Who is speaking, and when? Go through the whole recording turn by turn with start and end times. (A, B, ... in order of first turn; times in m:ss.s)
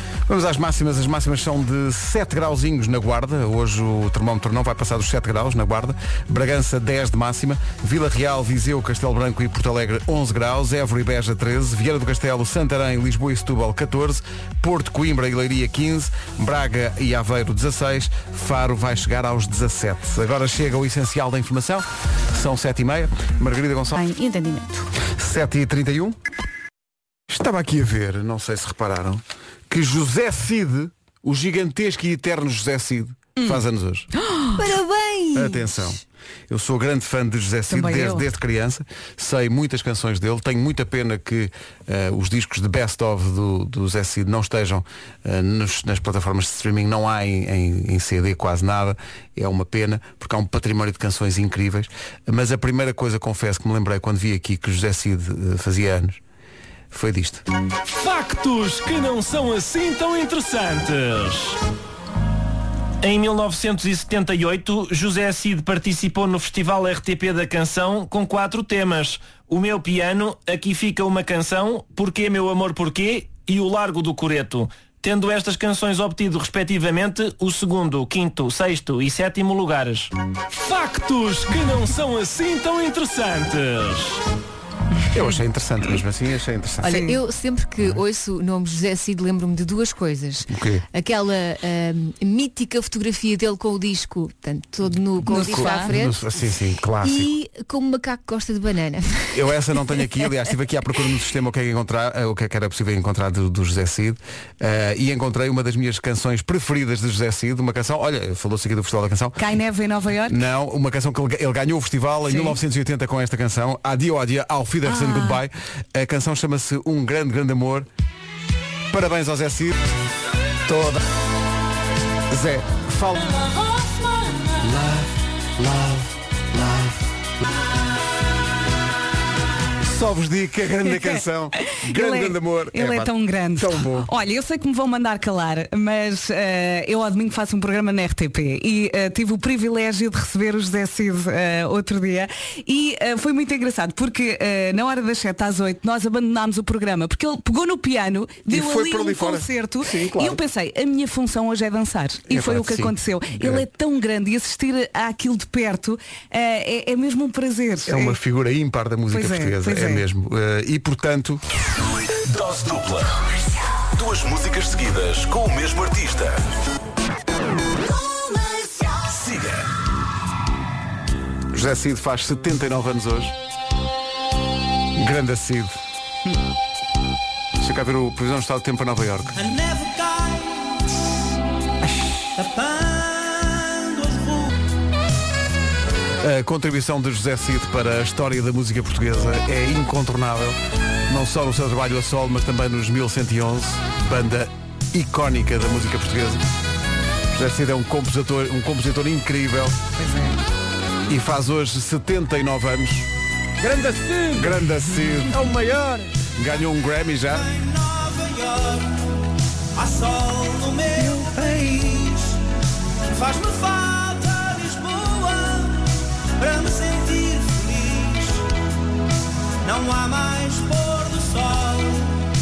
0:00.3-0:24.0 A
0:24.0-0:24.8 B
0:25.0-0:26.2 A
0:27.3-0:34.1 A
0:33.4-0:33.6 B
0:34.2-0:34.6 B
0:34.6-0:35.9 C
0:35.3-0:56.2 A
0:37.7-0:38.2 B
0:56.9-0:57.4 A
0:57.9-1:01.6 D
1:03.0-1:24.2 D
1:25.1-1:26.9 A
1:26.8-1:27.2 B
1:26.8-1:36.2 C
1:30.5-1:30.8 A
1:35.3-1:35.9 B
1:35.3-1:37.3 A
1:37.0-1:40.3 C
1:39.3-1:49.4 A
1:49.4-1:50.4 B
1:50.2-1:57.9 A
1:52.3-1:52.6 B
1:54.8-1:55.4 B
1:58.9-1:59.7 A
2:00.6-2:01.0 A
2:02.3-2:03.5 A
2:04.6-2:07.0 A
2:09.8-2:14.1 A
2:11.6-2:38.2 B
2:28.5-2:30.4 A
2:32.3-2:33.6 A
2:37.8-2:41.4 A
2:39.1-2:40.0 B
2:42.2-2:43.1 E
2:43.9-2:46.4 E
2:49.1-2:49.6 E
2:51.5-2:53.4 A
2:54.9-2:55.8 A
2:57.6-2:59.4 A
2:59.4-3:00.7 F
3:01.8-3:02.4 A
3:02.4-3:04.5 F
3:06.2-3:10.6 A
3:11.1-3:16.4 A
3:17.3-3:19.8 A
3:20.0-3:20.4 B
3:21.1-3:23.1 A
3:24.3-3:25.4 A
3:25.4-3:25.7 E
3:26.4-3:27.5 A
3:27.3-3:29.0 F
3:29.7-3:32.4 F
3:33.1-3:38.4 F
3:39.6-3:42.1 F